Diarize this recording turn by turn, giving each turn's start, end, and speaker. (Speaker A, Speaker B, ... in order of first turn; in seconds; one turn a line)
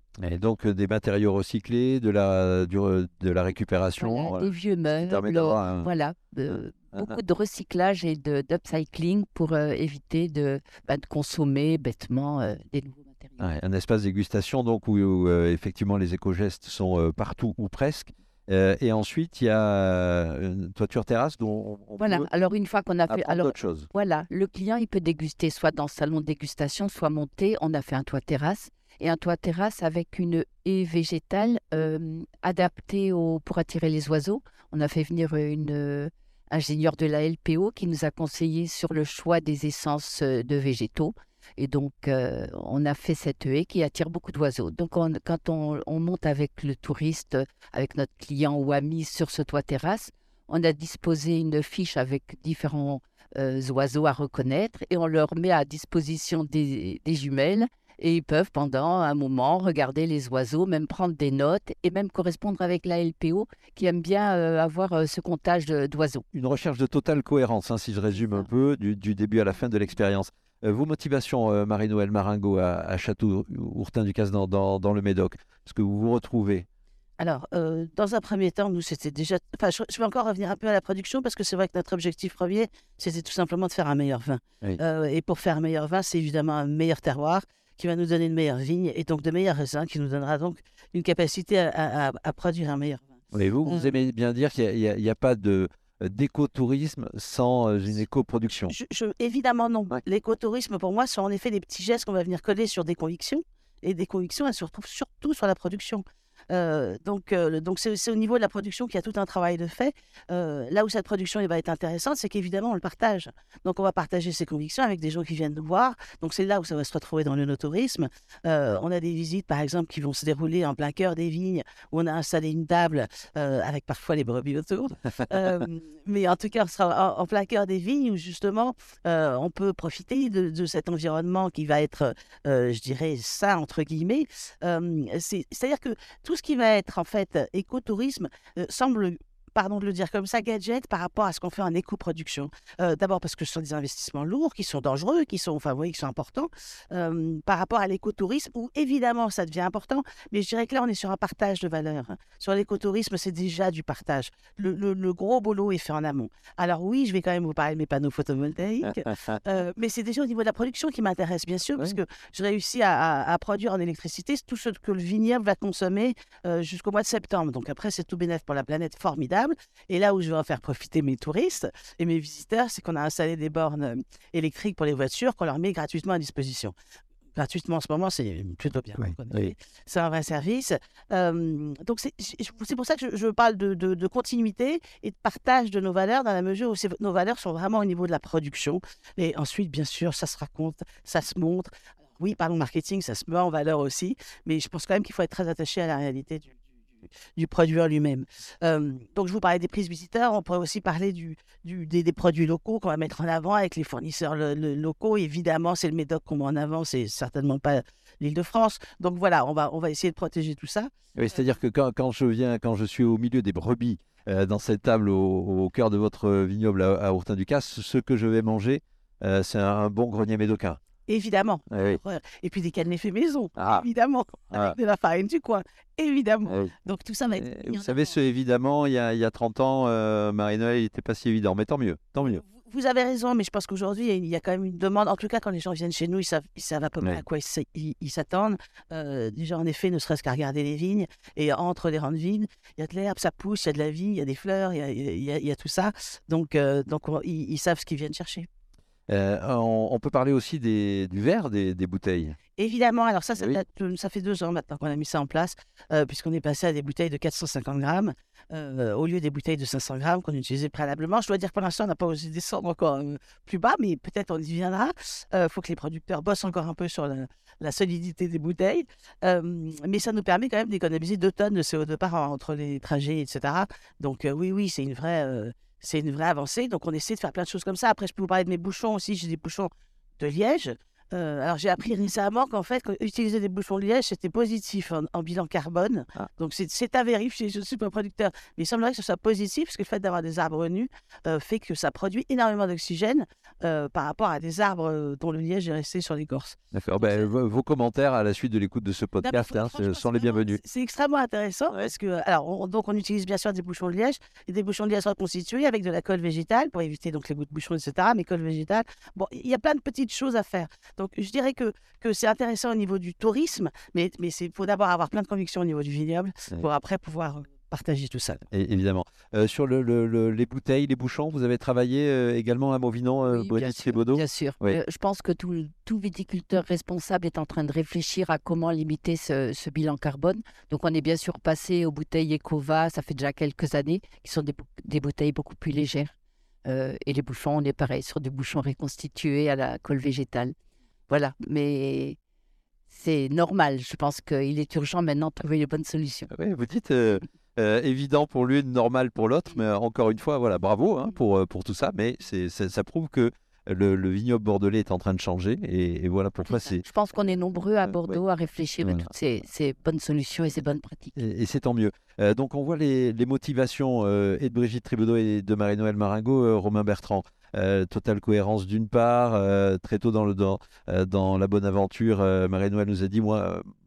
Speaker A: 0.2-4.5
Speaker B: 4.0-13.4
Speaker A: 5.0-5.9
Speaker A: 13.4-22.3
Speaker B: 22.0-66.2
Speaker A: 23.1-23.9
Speaker A: 66.3-76.7
Speaker C: 77.2-93.1
Speaker A: 93.3-98.8
Speaker C: 93.6-93.9
Speaker C: 98.7-176.7
Speaker C: 177.3-196.5
Speaker A: 179.0-179.5
Speaker C: 197.3-210.9
Speaker A: 211.1-220.8
Speaker C: 221.1-228.1
Speaker A: 221.7-222.0
Speaker A: 223.6-223.8
Speaker A: 224.5-224.8
Speaker A: 227.4-232.4
Speaker C: 232.2-248.5
Speaker A: 249.1-252.4
Speaker C: 252.6-297.3
Speaker A: 296.7-300.6
Speaker C: 299.2-318.4
Speaker A: 318.5-324.8
Speaker B: 323.3-336.1
Speaker B: 336.6-340.5
Speaker B: 341.1-342.2
Speaker B: 342.9-346.3
Speaker A: 346.3-356.8
Speaker B: 356.5-361.1
Speaker A: 357.9-358.2
Speaker A: 358.8-359.1
Speaker A: 361.1-373.7